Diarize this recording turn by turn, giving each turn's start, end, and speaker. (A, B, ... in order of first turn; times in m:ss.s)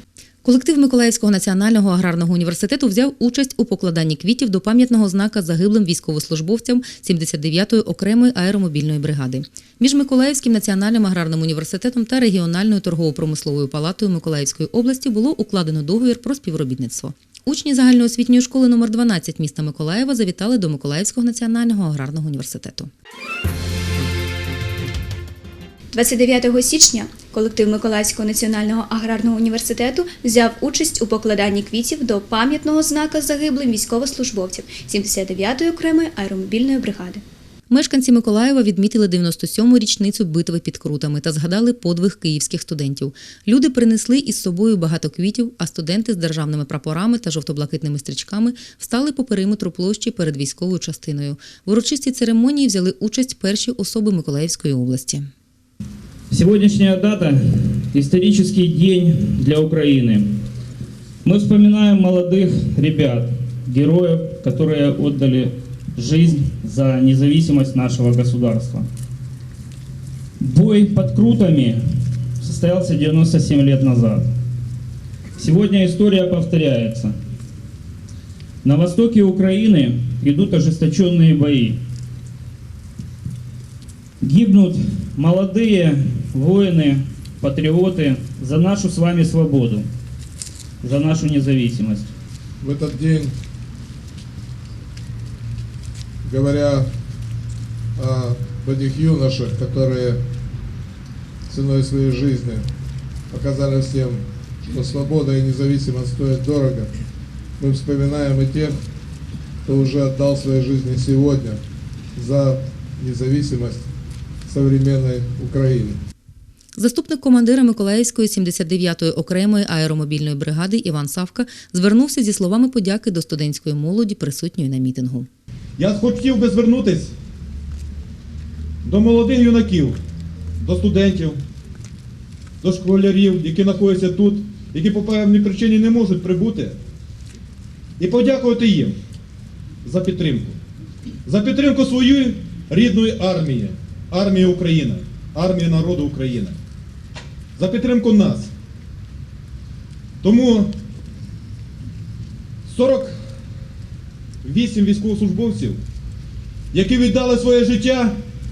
0:00.4-0:22.9 A
0:25.9-0:37.2 B
0:37.7-0:55.3 A
0:56.3-1:00.3 C
1:01.2-1:08.9 C
1:10.4-1:11.8 C
1:12.4-1:14.2 C
1:15.4-1:17.1 C
1:18.6-1:21.8 C
1:24.2-1:29.9 C
1:30.8-1:32.1 C
1:32.6-1:33.3 D
1:36.2-1:36.9 D
1:38.0-1:40.2 D
1:41.5-1:42.6 D
1:43.3-1:46.9 D
1:47.6-1:48.8 D
1:49.7-1:51.6 D
1:52.2-1:53.8 D
1:54.5-1:56.0 D
1:56.8-2:05.3 A
2:05.8-2:07.1 E
2:08.8-2:10.0 E
2:10.6-2:11.4 E
2:12.6-2:16.8 E
2:18.0-2:19.0 E
2:19.8-2:20.6 E
2:21.3-2:26.6 E
2:27.6-2:28.5 E
2:30.2-2:30.7 E
2:32.7-2:33.2 E
2:34.4-2:35.8 E
2:36.7-2:38.2 E